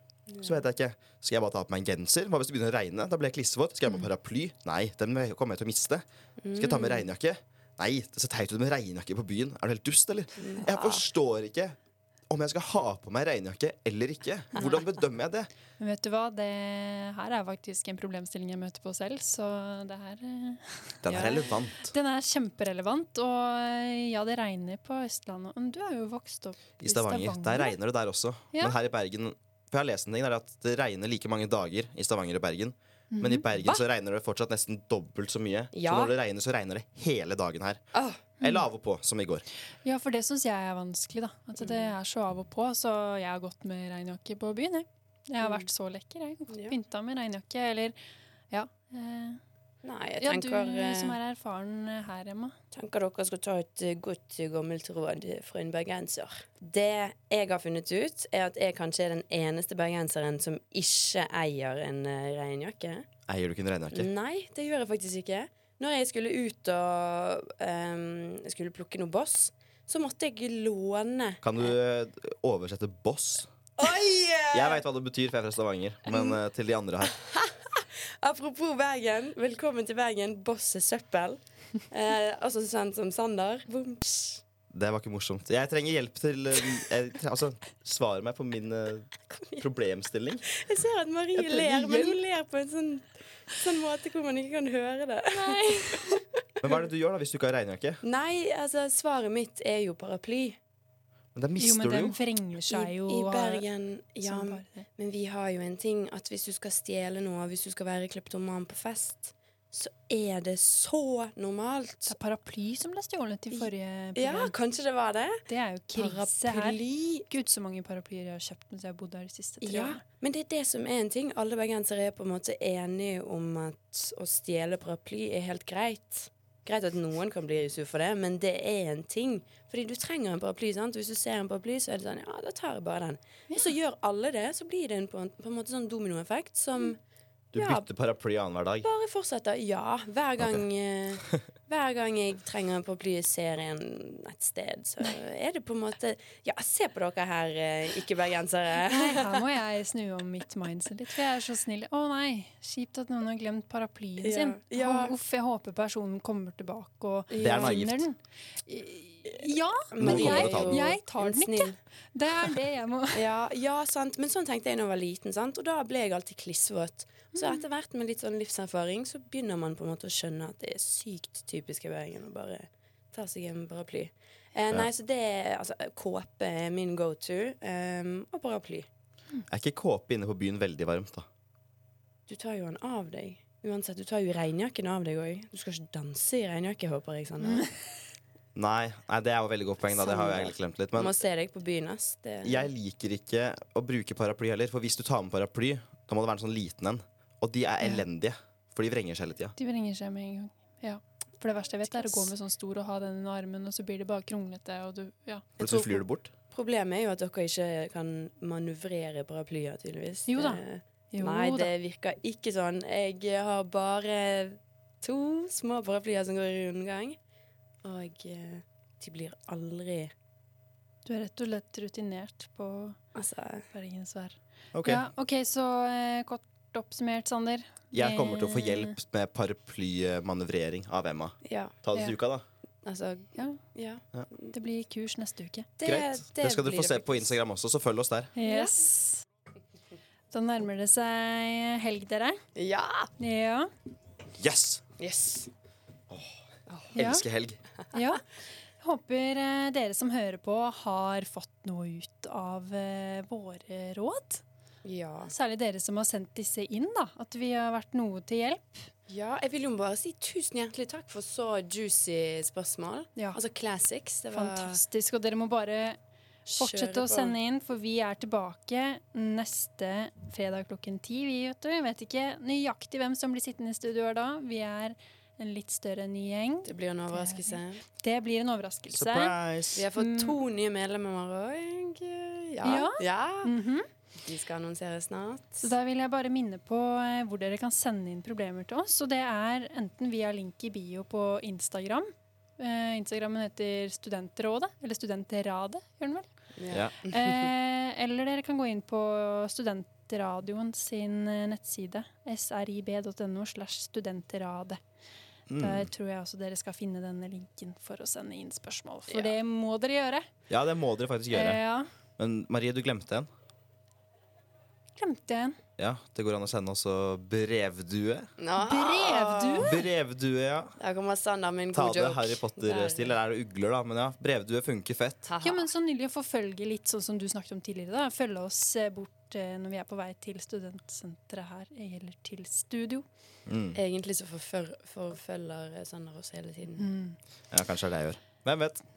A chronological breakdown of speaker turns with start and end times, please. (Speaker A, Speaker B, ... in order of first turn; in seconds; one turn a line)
Speaker A: 0.3-0.6
Speaker B: 0.4-11.8
Speaker A: 6.4-7.0
Speaker A: 10.4-11.1
Speaker B: 12.3-15.5
Speaker A: 14.6-14.8
Speaker C: 15.8-27.7
Speaker B: 21.0-21.9
Speaker A: 21.1-21.6
Speaker B: 26.8-37.8
Speaker C: 33.1-33.5
Speaker A: 35.7-36.1
Speaker A: 37.9-38.3
Speaker B: 38.4-39.5
Speaker C: 39.8-48.0
Speaker A: 41.6-41.9
Speaker A: 45.4-45.7
Speaker A: 46.5-46.8
Speaker C: 48.5-49.4
Speaker A: 49.8-51.2
Speaker C: 50.2-52.6
Speaker A: 52.7-63.1
Speaker B: 63.3-64.1
Speaker A: 63.9-71.7
Speaker B: 71.4-73.5
Speaker A: 73.8-74.8
Speaker B: 74.5-77.1
Speaker A: 76.1-76.4
Speaker A: 77.0-84.4
Speaker B: 84.7-90.5
Speaker A: 89.3-89.7
Speaker A: 90.5-96.8
Speaker C: 91.4-92.2
Speaker C: 95.3-96.2
Speaker B: 96.6-98.0
Speaker A: 98.0-100.6
Speaker B: 101.3-102.2
Speaker C: 101.6-103.6
Speaker A: 102.7-112.2
Speaker C: 104.2-104.9
Speaker C: 112.1-114.5
Speaker A: 113.5-115.4
Speaker C: 115.5-120.0
Speaker A: 115.9-117.3
Speaker A: 119.6-137.0
Speaker B: 137.5-138.9
Speaker A: 137.6-137.8
Speaker A: 138.8-149.4
Speaker C: 148.9-163.2
Speaker A: 154.2-155.1
Speaker A: 157.3-157.8
Speaker B: 157.4-158.1
Speaker A: 159.9-161.8
Speaker B: 160.0-160.9
Speaker A: 163.1-178.9
Speaker C: 167.3-167.6
Speaker B: 179.5-181.3
Speaker A: 182.3-187.7
Speaker B: 188.6-191.2
Speaker C: 190.0-190.3
Speaker A: 190.1-192.7
Speaker B: 192.4-199.6
Speaker C: 199.6-205.5
Speaker A: 201.9-202.3
Speaker A: 205.6-217.2
Speaker B: 205.6-206.3
Speaker C: 210.3-211.7
Speaker A: 217.8-220.1
Speaker C: 221.1-223.0
Speaker A: 223.2-223.7
Speaker C: 223.7-229.0
Speaker B: 224.7-225.1
Speaker B: 227.9-232.4
Speaker A: 231.4-231.8
Speaker A: 232.8-234.5
Speaker C: 233.3-233.6
Speaker C: 234.5-235.7
Speaker A: 235.8-237.4
Speaker B: 235.8-238.3
Speaker C: 238.4-239.2
Speaker A: 238.4-238.8
Speaker C: 240.3-242.4
Speaker A: 242.6-243.1
Speaker C: 243.2-243.7
Speaker B: 244.4-244.8
Speaker A: 245.0-245.5
Speaker B: 246.1-246.4
Speaker B: 246.9-247.6
Speaker C: 247.0-247.2
Speaker C: 247.9-248.2
Speaker C: 248.8-254.4
Speaker A: 254.8-255.3
Speaker C: 255.3-258.9
Speaker A: 259.1-264.8
Speaker C: 264.3-266.0
Speaker A: 266.5-267.4
Speaker C: 266.6-279.4
Speaker A: 276.6-277.8
Speaker B: 278.9-279.8
Speaker A: 279.8-283.5
Speaker C: 279.9-280.4
Speaker C: 282.6-283.9
Speaker A: 284.2-285.7
Speaker C: 285.6-296.3
Speaker A: 296.6-297.1
Speaker B: 296.7-297.0
Speaker C: 297.0-304.8
Speaker B: 305.5-305.9
Speaker C: 305.6-310.3
Speaker A: 309.1-309.3
Speaker B: 310.5-311.6
Speaker C: 311.3-311.9
Speaker B: 312.2-313.3
Speaker C: 315.0-315.6
Speaker B: 315.8-318.3
Speaker A: 318.4-319.8
Speaker C: 318.6-319.8
Speaker B: 319.6-320.8
Speaker A: 320.8-323.2
Speaker B: 321.7-325.3
Speaker A: 325.2-325.7
Speaker C: 325.4-333.1
Speaker B: 333.5-333.8
Speaker A: 333.7-336.8
Speaker C: 336.8-337.2
Speaker B: 337.5-338.8